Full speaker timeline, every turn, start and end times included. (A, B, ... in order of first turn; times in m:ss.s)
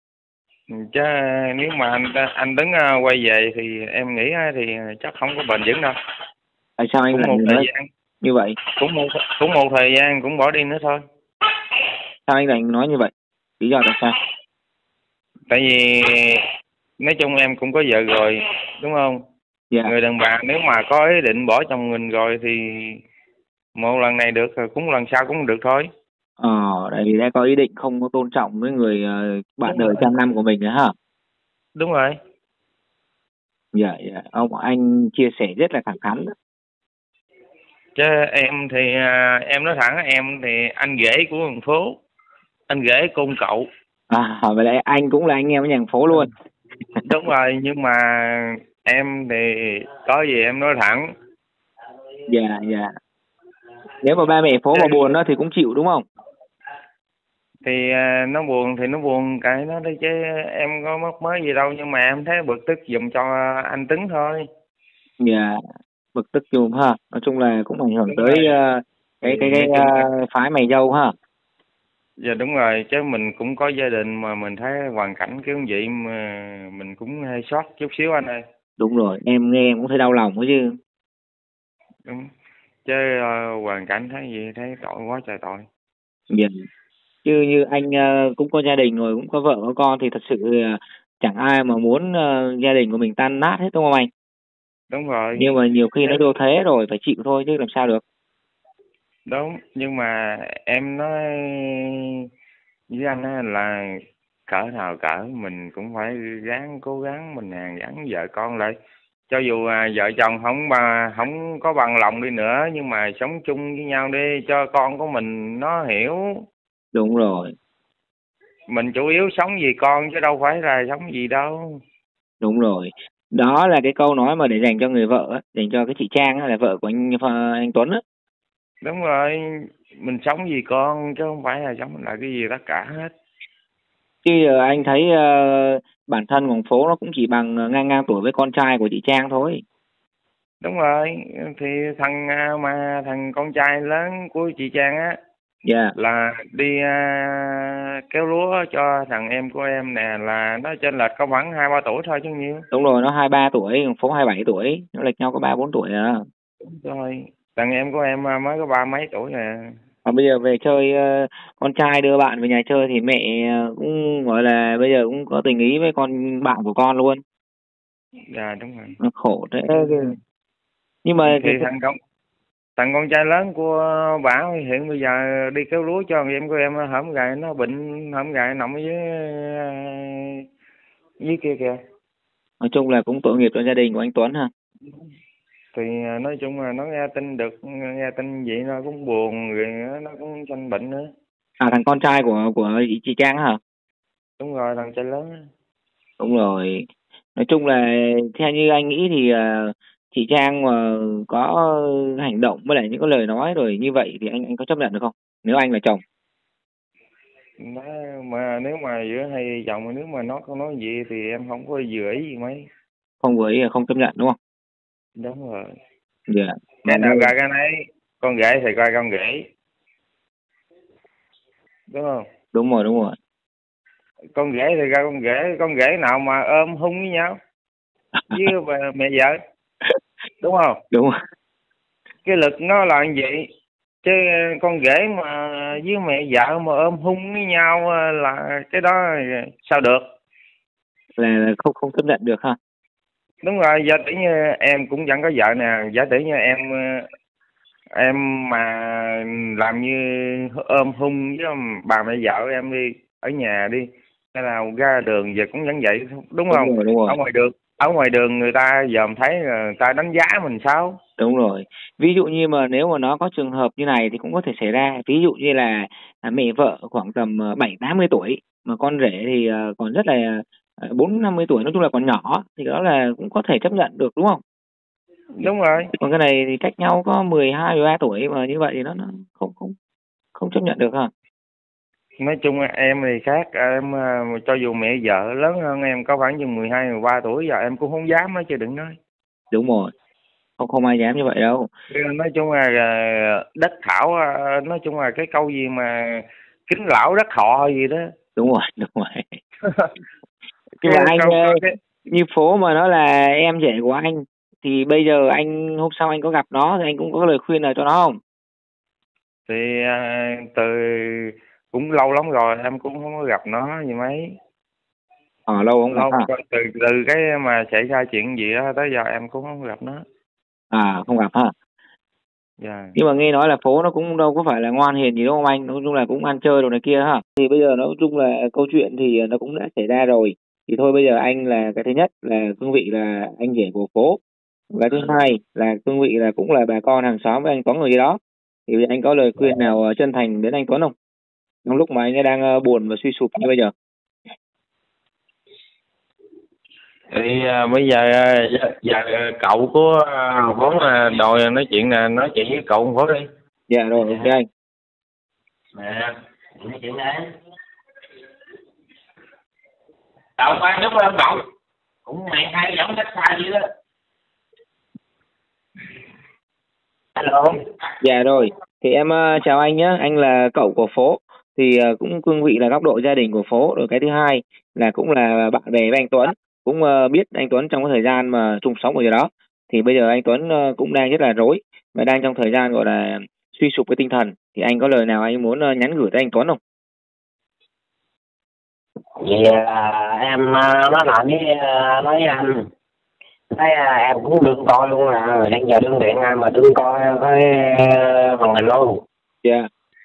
0:00.7-0:06.0 A
0:06.8-0:07.7 B
0:07.1-0:07.9 A
0:08.2-0:08.6 B
0:08.8-0:11.0 A
0:12.3-0:14.2 B
0:15.5-0:16.4 A
0:17.0-0:19.2 A
0:19.8-0:23.0 A
0:23.8-0:25.9 A
0:26.4-0:30.9 B
0:29.7-0:30.1 A
0:31.8-0:32.2 A
0:33.7-0:36.3 B
0:38.0-0:42.0 A
0:42.7-0:43.7 A
0:44.1-0:46.3 B
0:47.0-0:51.1 A
0:52.3-0:52.9 B
0:54.0-0:56.0 B
0:54.7-0:55.1 A
0:57.6-1:04.5 A
1:05.2-1:05.6 B
1:06.2-1:11.1 B
1:08.1-1:08.5 A
1:09.2-1:10.1 A
1:12.2-1:18.4 A
1:18.8-1:20.8 B
1:22.8-1:25.7 A
1:26.3-1:26.6 B
1:27.2-1:34.1 B
1:34.9-1:36.2 A
1:35.4-1:38.0 B
1:39.3-1:42.2 A
1:42.9-1:48.8 A
1:49.3-1:56.5 A
1:56.9-1:57.6 B
1:58.7-2:01.6 A
2:02.4-2:08.0 B
2:08.8-2:13.1 A
2:14.2-2:19.6 B
2:20.6-2:25.2 A
2:25.6-2:25.9 B
2:26.0-2:32.7 A
2:32.7-2:36.2 B
2:36.6-2:39.7 A
2:40.0-2:47.2 B
2:48.3-2:49.0 A
2:49.0-2:50.1 B
2:49.7-2:50.2 A
2:51.0-2:51.7 B
2:51.2-2:52.0 A
2:52.8-3:00.4 A
3:01.2-3:01.8 A
3:02.6-3:04.5 B
3:05.8-3:11.1 A
3:11.6-3:13.6 B
3:14.4-3:15.4 A
3:16.2-3:26.0 B
3:27.6-3:32.7 A
3:33.2-3:34.4 B
3:35.2-3:35.8 A
3:36.3-3:37.3 B
3:36.9-3:39.4 A
3:41.9-3:42.2 A
3:42.5-3:43.2 B
3:44.4-3:47.4 A
3:48.3-3:49.4 A
3:50.4-3:50.8 A
3:50.9-3:51.2 B
3:52.2-3:53.4 A
3:54.0-4:00.0 A
4:01.2-4:02.6 B
4:03.4-4:07.1 A
4:08.0-4:21.0 A
4:16.5-4:17.2 B
4:21.2-4:34.4 B
4:35.4-4:35.9 A
4:35.9-4:39.8 B
4:40.4-4:41.1 B
4:42.2-4:49.0 A
4:49.5-4:49.9 B
4:50.6-4:51.7 B
4:51.9-4:58.1 A
4:58.4-4:59.4 B
5:00.8-5:01.7 A
5:00.8-5:08.2 B
5:09.5-5:14.4 A
5:15.5-5:16.3 B
5:15.9-5:20.0 A
5:20.7-5:21.5 B
5:22.6-5:23.0 A
5:23.0-5:34.2 B
5:34.7-5:40.9 B
5:41.6-5:43.7 B
5:47.1-5:53.3 A
5:53.7-5:54.5 B
5:55.8-5:56.1 A
5:56.6-5:57.2 C
6:00.4-6:01.4 A
6:02.1-6:03.6 A
6:07.2-6:07.6 C
6:08.0-6:26.6 B
6:29.2-6:32.6 C
6:33.5-6:39.0 C